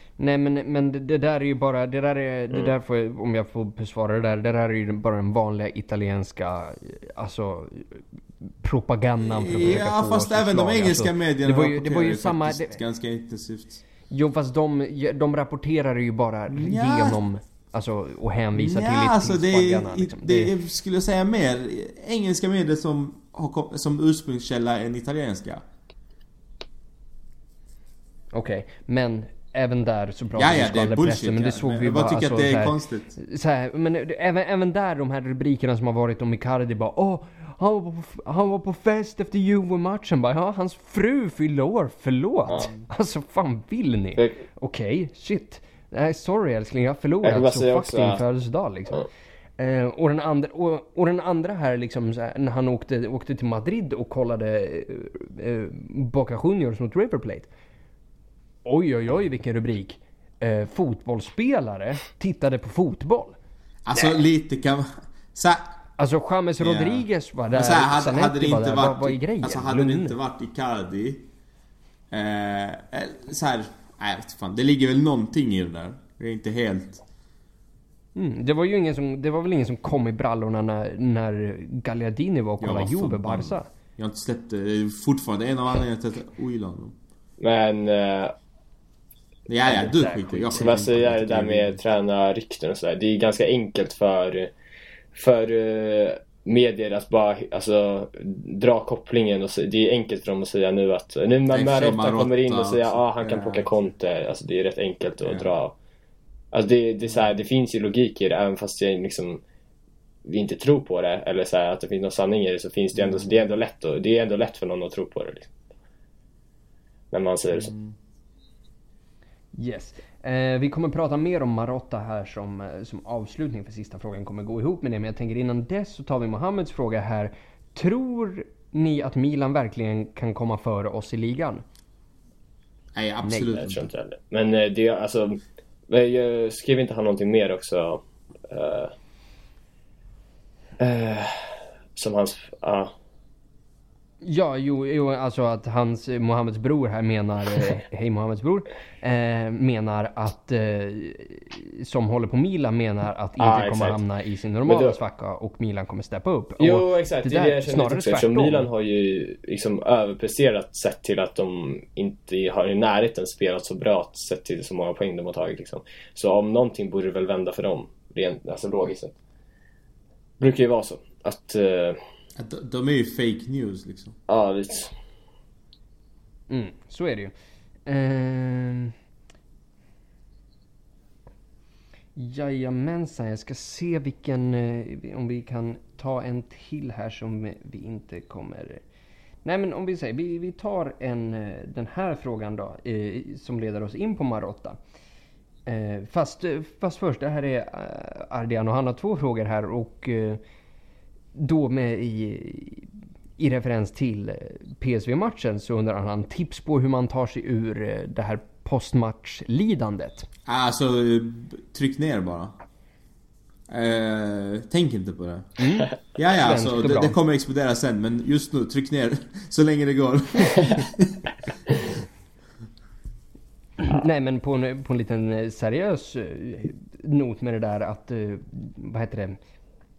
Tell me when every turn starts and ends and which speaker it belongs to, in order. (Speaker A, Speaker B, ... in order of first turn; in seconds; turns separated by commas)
Speaker A: 0.2-8.0, Speaker A: 8.6-12.8, Speaker B: 9.2-13.8, Speaker A: 14.1-20.5, Speaker B: 16.5-17.2, Speaker B: 18.5-25.6, Speaker A: 28.3-49.0, Speaker B: 30.4-33.2, Speaker C: 47.2-48.2, Speaker A: 49.6-57.5, Speaker A: 58.6-63.4, Speaker B: 63.9-65.7, Speaker A: 66.0-70.1, Speaker B: 66.6-71.3, Speaker B: 72.1-77.0, Speaker A: 78.1-83.7, Speaker B: 82.6-87.0, Speaker C: 87.4-88.3, Speaker B: 89.5-91.8, Speaker A: 89.7-90.6, Speaker C: 90.5-94.5, Speaker C: 95.1-105.7, Speaker B: 101.5-103.7, Speaker B: 105.2-105.5, Speaker C: 106.5-109.4, Speaker C: 110.3-115.5, Speaker B: 113.0-113.3, Speaker C: 117.1-117.7, Speaker B: 117.5-118.0, Speaker A: 119.5-131.6, Speaker B: 132.9-133.9, Speaker A: 133.2-133.5, Speaker C: 133.5-138.9, Speaker C: 140.8-142.9, Speaker A: 144.2-158.7, Speaker C: 153.4-154.0, Speaker C: 154.6-155.0, Speaker C: 156.6-169.2, Speaker C: 170.4-172.0, Speaker B: 172.4-174.1, Speaker C: 174.3-174.9, Speaker A: 176.5-177.3, Speaker A: 177.9-178.9, Speaker A: 182.2-188.8, Speaker A: 189.4-194.8, Speaker A: 195.7-200.4, Speaker A: 201.3-210.3, Speaker B: 210.5-212.6, Speaker B: 213.7-221.9, Speaker A: 215.6-217.1, Speaker A: 223.8-229.4